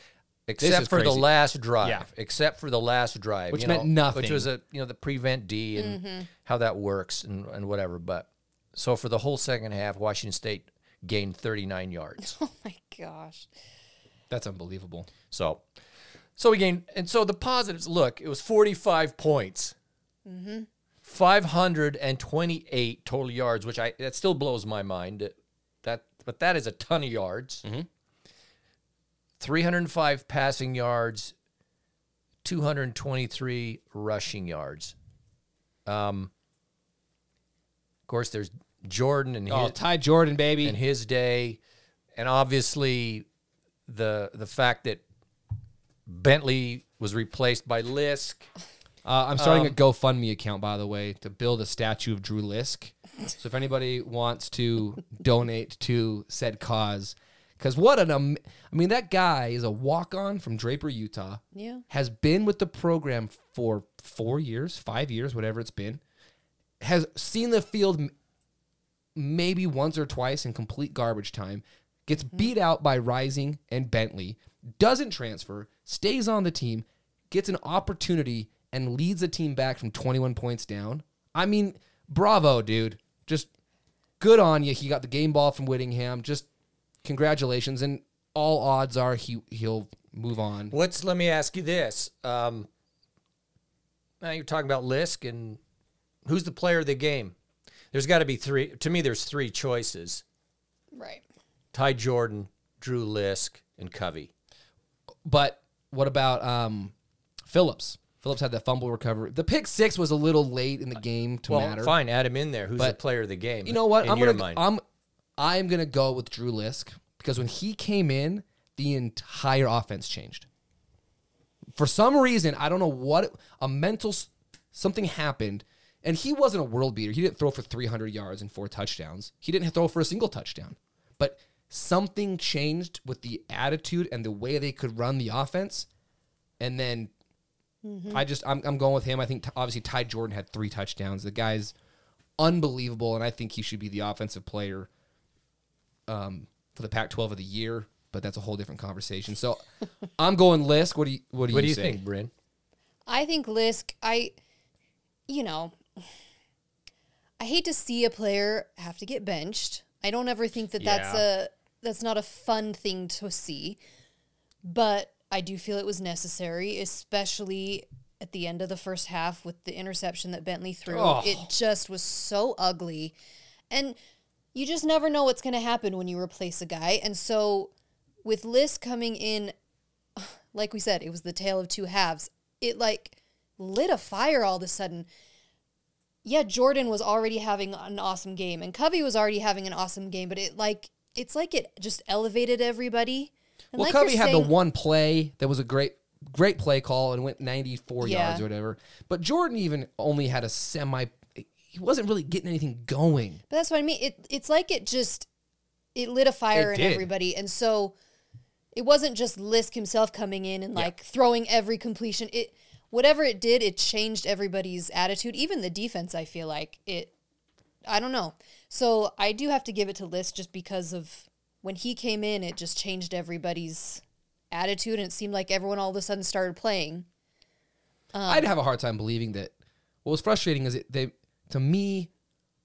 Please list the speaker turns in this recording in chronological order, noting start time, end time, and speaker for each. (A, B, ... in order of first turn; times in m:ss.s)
0:00.5-0:12.3 A
0:00.6-0:01.3 B
0:01.8-0:02.1 B
0:03.5-0:04.5 B
0:05.8-0:06.3 C
0:12.2-0:13.5 C
0:14.3-0:15.1 B
0:15.3-0:15.6 A
0:16.4-0:19.7 A
0:20.2-0:20.7 C
0:21.0-0:27.6 A
0:29.4-0:31.3 A
0:32.4-0:34.9 A
0:35.8-0:36.3 A
0:38.1-0:39.7 A
0:39.5-0:40.8 B
0:40.6-0:41.6 A
0:42.2-0:43.2 A
0:43.9-0:45.0 A
0:46.1-0:48.5 A
0:49.0-1:06.0 B
0:49.4-0:49.7 A
1:01.5-1:01.8 C
1:06.8-1:08.1 B
1:09.1-1:23.5 B
1:24.2-1:26.5 B
1:27.0-1:30.8 B
1:30.7-1:32.7 A
1:34.2-1:35.6 A
1:36.2-1:37.3 A
1:37.9-1:40.2 A
1:40.9-1:41.2 C
1:41.7-1:44.3 A
1:45.2-1:46.9 B
1:47.4-1:51.9 B
1:51.5-1:54.6 A
1:53.6-1:54.8 B
1:55.4-2:00.4 B
2:01.8-2:15.9 B
2:16.6-2:17.1 B
2:17.8-2:18.2 C
2:18.1-2:21.7 B
2:22.4-2:24.9 B
2:26.1-2:29.6 B
2:30.2-2:32.0 B
2:31.5-2:32.3 A
2:33.1-2:34.3 C
2:35.3-2:35.8 C
2:37.4-2:43.8 C
2:40.8-2:41.2 B
2:44.6-2:53.1 C
2:50.9-2:51.5 B
2:53.7-2:54.0 C
2:54.5-2:57.7 C
2:58.2-2:59.5 C
3:00.2-3:05.1 C
3:06.2-3:14.5 C
3:13.7-3:23.4 B
3:18.0-3:18.4 C
3:23.5-3:25.3 C
3:25.9-3:27.9 C
3:26.5-3:27.1 B
3:28.7-3:37.1 C
3:37.9-3:47.0 C
3:48.1-3:48.5 C
3:48.2-3:49.5 B
3:50.0-3:52.1 B